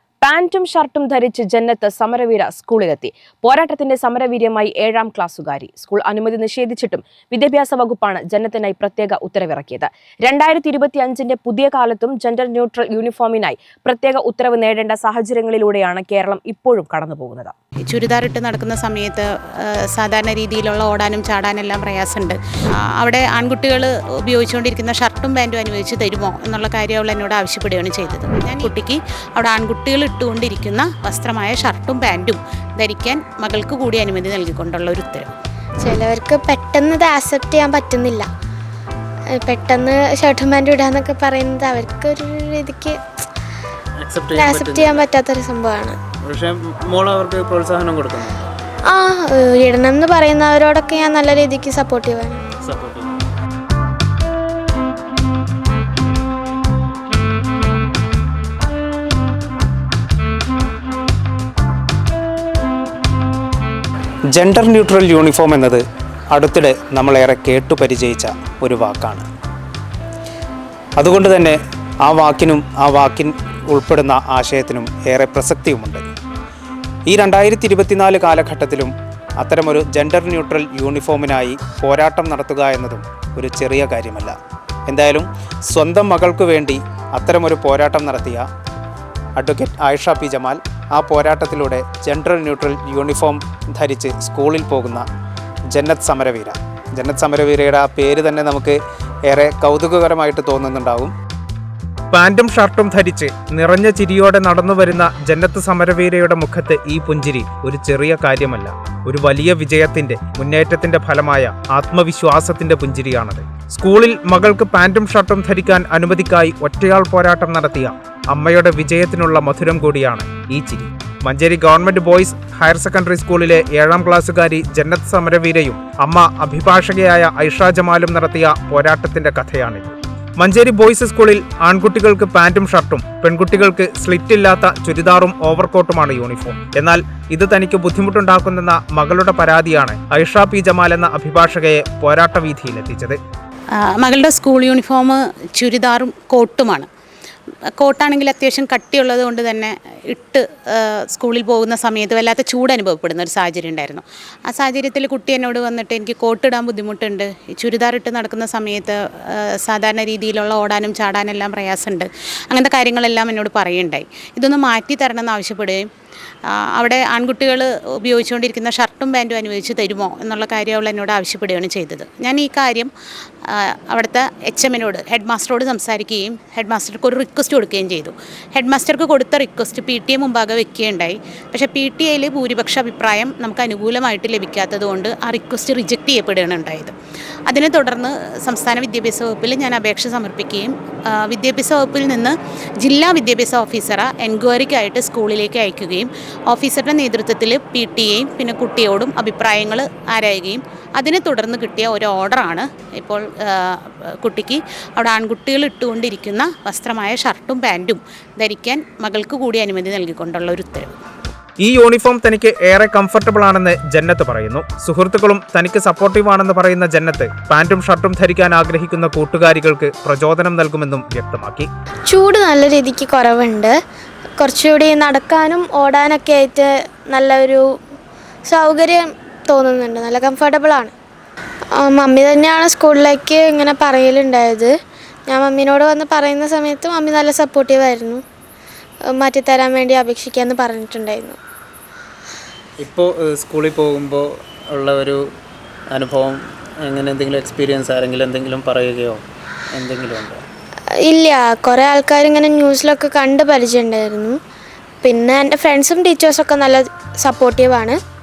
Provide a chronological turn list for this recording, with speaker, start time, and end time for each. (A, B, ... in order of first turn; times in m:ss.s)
0:00.2-0:17.5 A
0:17.8-0:22.4 B
0:23.0-0:35.3 B
0:35.8-0:38.3 C
0:39.3-0:43.0 C
0:44.0-0:45.0 D
0:44.3-0:46.0 C
0:46.2-0:48.5 D
0:48.9-0:52.4 C
0:52.6-0:53.1 D
1:04.3-1:09.2 E
1:11.0-1:16.1 E
1:17.1-1:24.4 E
1:24.9-1:28.4 E
1:29.4-1:35.0 E
1:35.7-1:41.1 E
1:42.1-2:23.2 E
2:23.8-2:26.9 B
2:27.8-2:45.9 B
2:46.5-2:52.9 B
2:53.4-3:06.9 B
3:07.5-3:31.0 B
3:31.6-3:41.7 E
3:42.1-3:43.7 C
3:44.4-3:47.6 C
3:48.5-3:50.9 C
3:51.8-3:54.7 C
3:55.3-3:58.2 C
3:59.1-4:01.4 C
4:02.8-4:05.2 D
4:05.9-4:10.4 D
4:11.0-4:14.4 C
4:15.0-4:18.0 C